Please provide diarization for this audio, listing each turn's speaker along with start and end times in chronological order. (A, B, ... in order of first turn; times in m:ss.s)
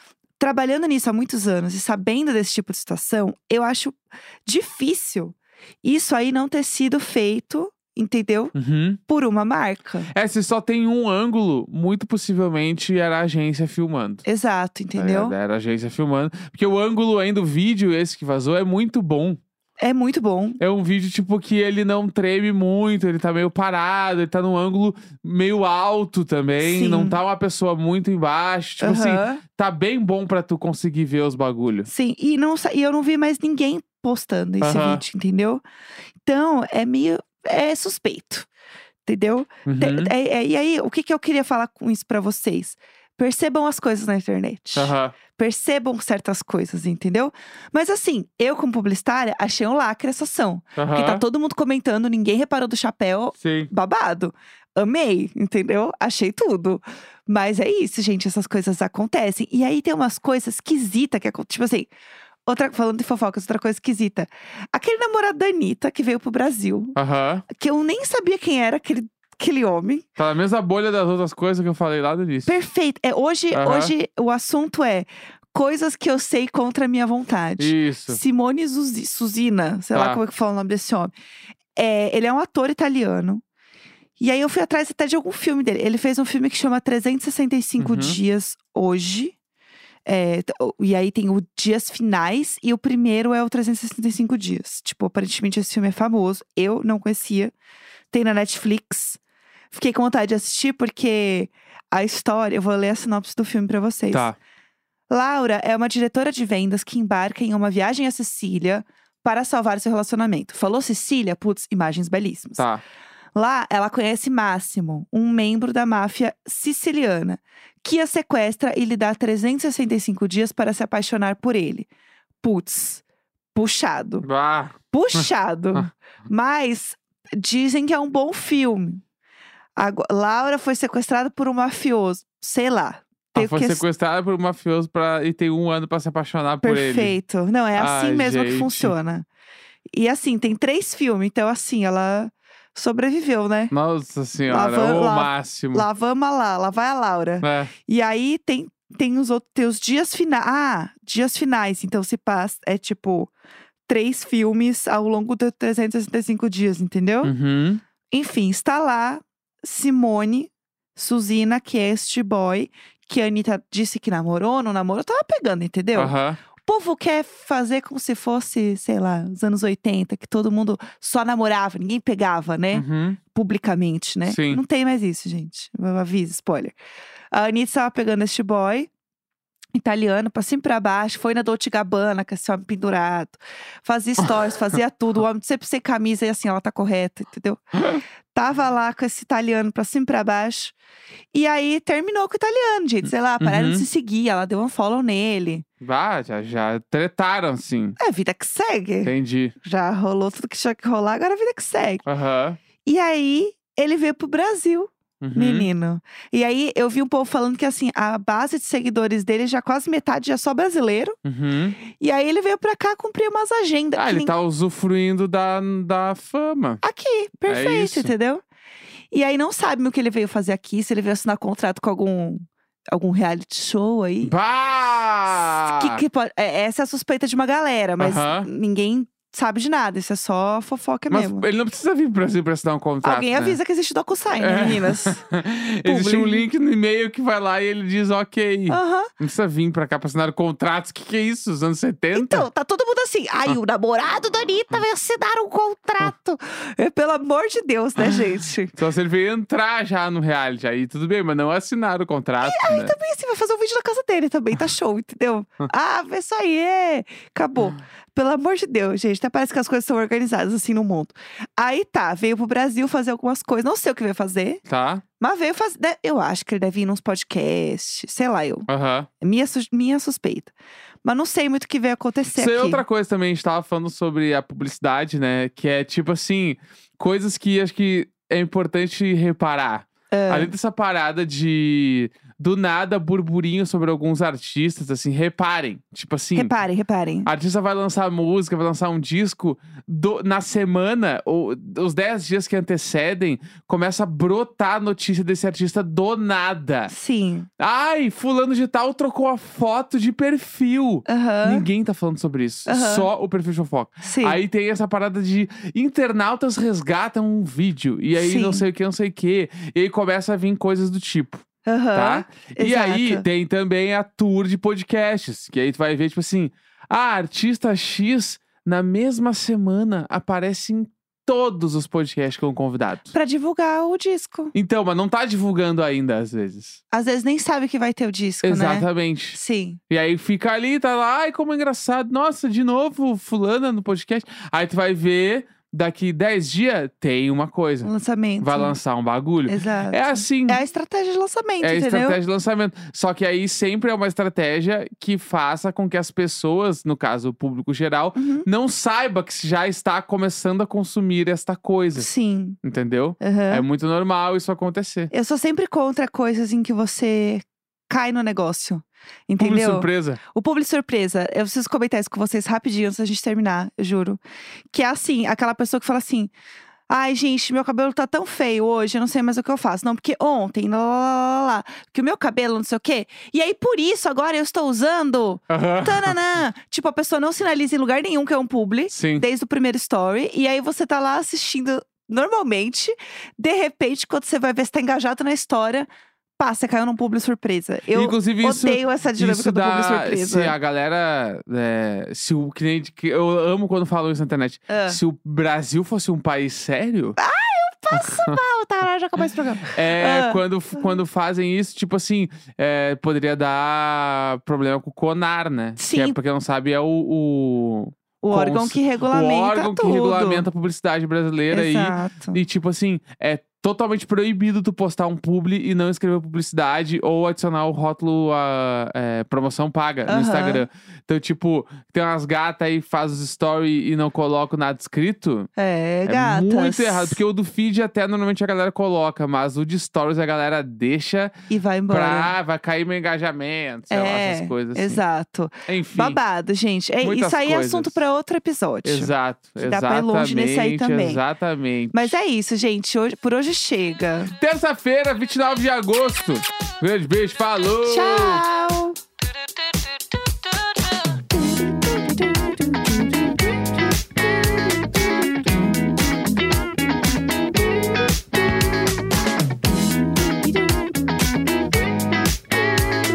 0:00.4-0:08.5 A
0:08.5-0:09.0 B
0:09.1-0:10.1 A
0:10.1-0:14.2 B
0:14.2-0:15.4 A
0:15.0-0:19.4 B
0:19.8-0:20.6 A
0:20.6-0:31.9 B
0:26.6-0:27.2 A
0:28.8-0:29.4 A
0:31.8-0:35.6 A
0:34.6-0:35.0 B
0:36.2-0:38.5 A
0:39.0-1:01.9 A
0:39.6-0:40.1 B
0:44.7-0:45.2 B
0:50.8-0:51.2 B
0:53.4-0:53.7 B
1:02.4-1:06.9 A
1:07.0-1:07.4 B
1:07.5-1:10.0 A
1:10.2-1:12.5 B
1:12.4-1:21.1 A
1:13.5-1:13.9 B
1:17.6-1:18.2 B
1:19.9-1:20.2 B
1:21.8-1:23.4 A
1:24.2-1:29.3 A
1:27.8-1:28.2 B
1:30.0-1:37.5 A
1:38.1-1:39.2 A
1:39.7-1:44.3 A
1:45.1-1:52.7 A
1:52.6-1:52.8 B
1:53.3-2:01.9 A
2:02.4-2:03.0 A
2:03.5-2:04.2 A
2:04.2-2:05.9 B
2:04.9-2:09.0 A
2:09.8-2:13.8 A
2:13.3-2:17.2 B
2:16.6-2:19.3 A
2:17.8-2:19.0 B
2:19.9-2:23.7 A
2:23.7-2:25.9 B
2:24.4-2:33.3 A
2:27.4-2:27.7 B
2:33.9-2:37.3 A
2:37.2-2:37.8 B
2:38.1-2:56.7 A
2:45.9-2:46.4 B
2:52.7-2:53.2 B
2:54.2-2:54.6 B
2:57.3-2:58.9 A
2:59.7-3:10.7 A
3:11.3-3:15.6 A
3:13.4-3:13.8 B
3:15.8-3:18.0 B
3:18.0-3:22.0 A
3:19.0-3:19.5 B
3:22.0-3:22.6 B
3:22.8-3:31.2 A
3:25.2-3:25.7 B
3:31.2-3:31.8 B
3:31.9-3:34.3 A
3:34.0-3:36.8 B
3:36.8-3:38.4 A
3:37.5-3:38.1 B
3:39.1-3:44.3 A
3:44.2-3:46.0 B
3:45.3-3:51.5 A
3:48.0-3:48.5 B
3:51.1-3:53.6 B
3:53.0-3:55.2 A
3:54.4-4:02.5 B
3:55.8-3:56.5 A
3:58.7-3:59.1 A
4:02.1-4:08.7 A
4:08.7-4:13.0 B
4:12.4-4:24.6 A
4:24.7-4:25.0 B
4:25.2-4:28.7 A
4:28.7-4:29.1 B
4:29.2-4:30.5 A
4:31.0-4:32.8 A
4:32.3-4:46.5 B
4:40.1-4:40.5 A
4:46.3-4:47.3 A
4:47.2-4:56.9 B
4:56.9-4:57.5 A
4:57.6-5:11.4 B
5:01.1-5:01.7 A
5:02.6-5:03.1 A
5:04.0-5:04.4 A
5:08.1-5:08.6 A
5:11.6-5:13.2 A
5:11.9-5:23.1 B
5:23.1-5:24.5 A
5:24.5-5:26.8 B
5:26.9-5:29.8 A
5:28.4-5:29.4 B
5:29.9-5:37.9 B
5:37.8-5:38.8 A
5:38.4-5:40.6 B
5:39.5-5:42.2 A
5:41.6-5:52.1 B
5:48.2-5:48.5 A
5:51.9-5:52.6 A
5:52.6-5:55.1 B
5:53.2-5:53.6 A
5:55.1-6:04.2 A
5:59.4-6:00.2 B
6:04.7-6:06.3 A
6:06.9-6:25.9 A
6:15.5-6:16.1 B
6:18.9-6:19.2 B
6:26.4-6:30.5 A
6:27.9-6:37.2 B
6:34.7-6:35.0 A
6:37.2-6:41.0 A
6:37.9-6:38.4 B
6:39.7-7:05.5 B
6:45.8-6:46.2 A
6:48.2-6:50.5 A
6:51.5-6:52.4 A
7:00.0-7:00.6 A
7:05.6-7:07.2 A
7:06.0-7:11.3 B
7:11.5-7:12.3 A
7:11.9-7:15.0 B
7:13.9-7:21.2 A
7:15.6-7:16.2 B
7:17.0-7:18.0 B
7:18.8-7:22.1 B
7:21.9-7:24.4 A
7:24.4-7:28.4 B
7:27.8-7:29.0 A
7:31.3-7:34.7 A
7:40.4-7:40.8 A